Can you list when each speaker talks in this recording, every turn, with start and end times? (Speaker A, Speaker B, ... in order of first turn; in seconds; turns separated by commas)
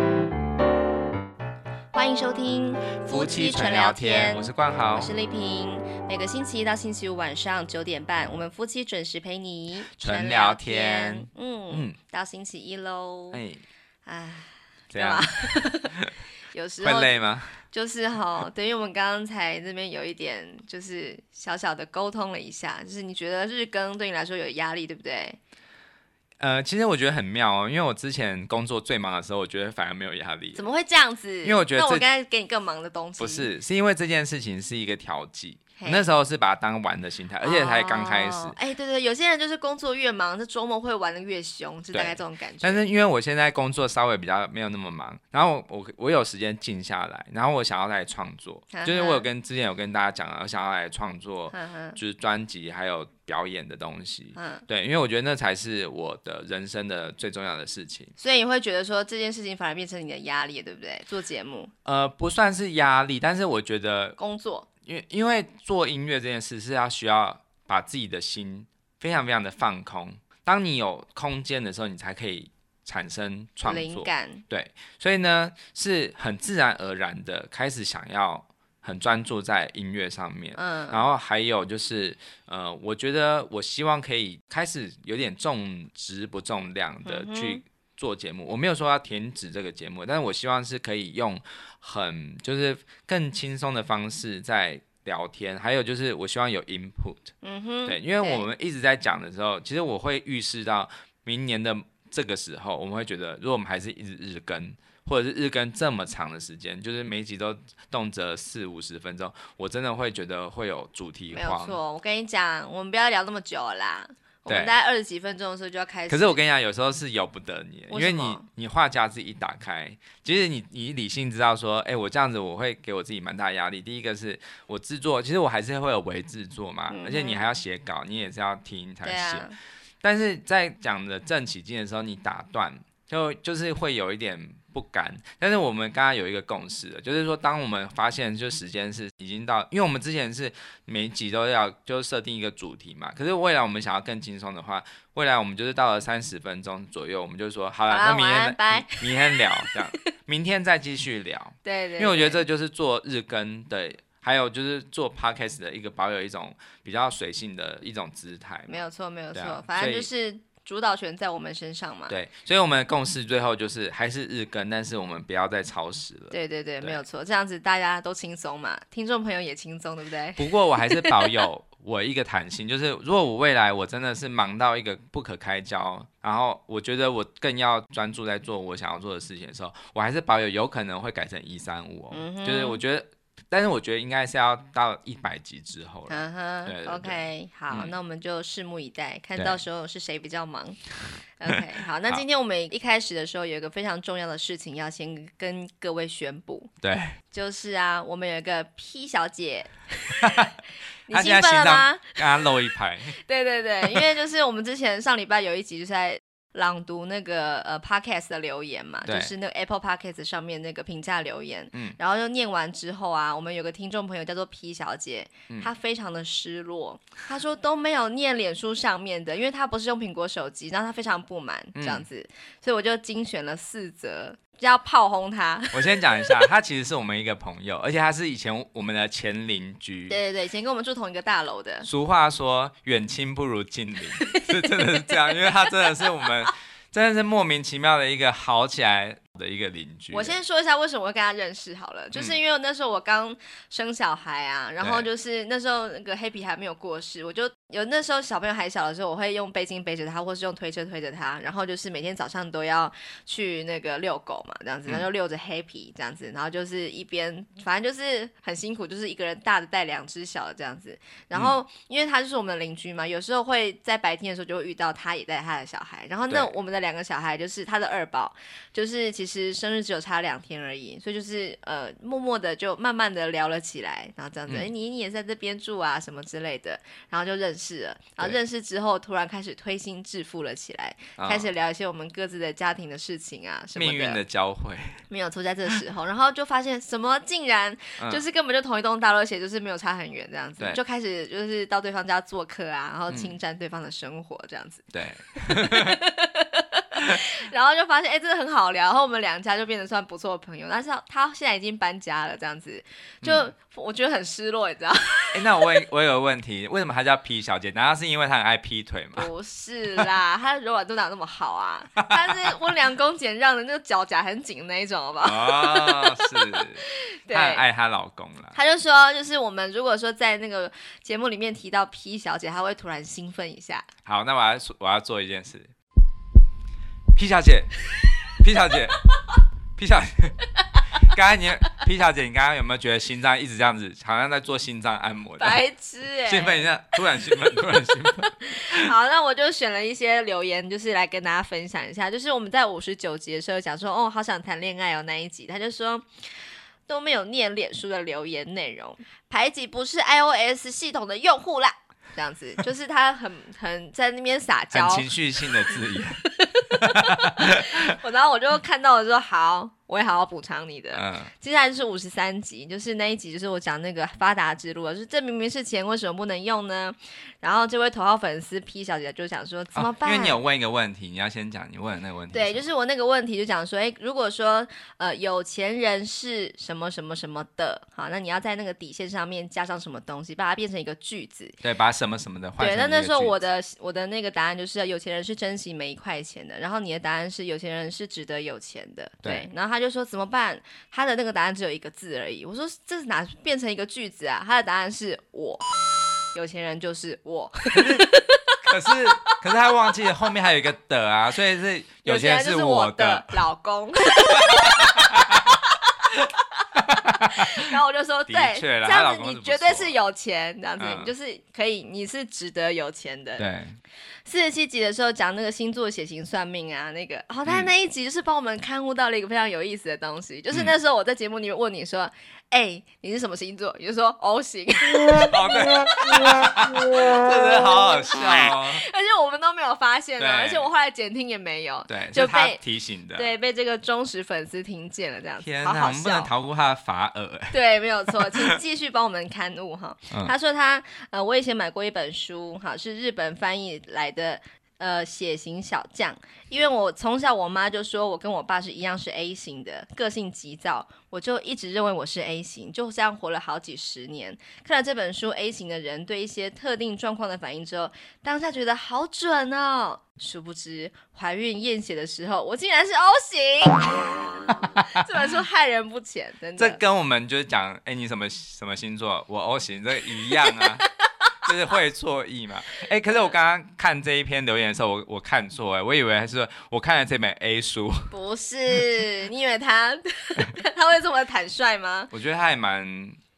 Speaker A: 1.9-13.4, Speaker B: 3.0-5.1, Speaker B: 9.9-11.9, Speaker B: 13.3-13.6, Speaker A: 14.1-15.9, Speaker B: 14.9-15.3, Speaker A: 16.5-25.4, Speaker B: 16.8-17.6, Speaker B: 26.4-30.6, Speaker A: 30.5-33.5, Speaker B: 31.4-32.0, Speaker B: 33.2-38.5, Speaker A: 35.8-36.0, Speaker A: 37.4-42.8, Speaker B: 41.9-58.1, Speaker A: 48.7-49.2, Speaker A: 51.5-52.0, Speaker A: 54.3-54.6, Speaker A: 58.2-61.7, Speaker B: 61.8-64.2, Speaker A: 64.2-64.7, Speaker B: 64.8-97.3, Speaker A: 73.6-74.4, Speaker A: 80.5-81.0, Speaker A: 87.0-87.6, Speaker A: 97.4-98.5, Speaker B: 97.8-111.8, Speaker A: 111.3-116.4, Speaker B: 114.5-114.7, Speaker B: 116.1-129.5, Speaker A: 117.9-118.5, Speaker A: 126.9-127.4, Speaker A: 129.0-129.6, Speaker B: 130.0-160.1, Speaker A: 147.9-149.7, Speaker A: 151.6-152.4, Speaker A: 158.7-162.1, Speaker B: 162.1-167.0, Speaker A: 166.3-171.4, Speaker B: 170.3-187.9, Speaker A: 182.1-182.8, Speaker A: 186.1-190.8, Speaker A: 191.4-196.7, Speaker B: 196.8-197.2, Speaker A: 197.3-200.5, Speaker B: 200.2-200.5, Speaker A: 201.1-202.2, Speaker B: 201.1-203.2, Speaker A: 203.2-226.4, Speaker B: 209.1-209.3, Speaker B: 211.7-212.0, Speaker B: 221.7-222.1, Speaker B: 225.7-230.2, Speaker A: 230.1-231.9, Speaker B: 231.8-240.3, Speaker A: 234.2-235.7, Speaker A: 240.1-284.2, Speaker B: 244.8-245.1, Speaker B: 281.2-281.5, Speaker B: 283.8-285.0, Speaker A: 285.1-305.6, Speaker B: 294.9-296.0, Speaker B: 296.9-297.2, Speaker B: 303.2-303.5, Speaker B: 305.3-309.3, Speaker A: 309.1-317.6, Speaker B: 312.0-312.3, Speaker B: 315.2-318.6, Speaker A: 318.5-323.9, Speaker B: 324.0-325.7, Speaker B: 327.1-327.8, Speaker B: 328.3-329.0, Speaker B: 329.8-330.4, Speaker B: 330.9-335.6, Speaker A: 335.4-336.6, Speaker B: 336.2-338.9, Speaker A: 338.4-346.1, Speaker A: 346.9-355.1, Speaker B: 354.7-357.8, Speaker A: 356.2-370.4, Speaker B: 360.9-361.3, Speaker B: 369.7-372.6, Speaker A: 372.3-381.6, Speaker B: 381.6-383.4, Speaker A: 382.6-395.6, Speaker A: 396.3-399.4, Speaker B: 397.7-403.4, Speaker A: 402.0-413.4, Speaker B: 404.1-405.5, Speaker B: 406.7-407.6, Speaker B: 408.3-409.9, Speaker B: 410.8-411.1, Speaker B: 413.4-413.8, Speaker A: 414.2-426.3, Speaker B: 417.4-417.7, Speaker B: 425.2-428.8, Speaker A: 427.9-432.6, Speaker B: 430.2-430.7, Speaker B: 431.9-433.3, Speaker A: 433.1-436.3, Speaker B: 435.4-437.6, Speaker A: 437.5-466.8, Speaker B: 438.1-438.6, Speaker B: 464.7-465.0, Speaker B: 466.6-470.9, Speaker B: 471.4-478.1, Speaker A: 478.1-482.1, Speaker B: 482.1-483.2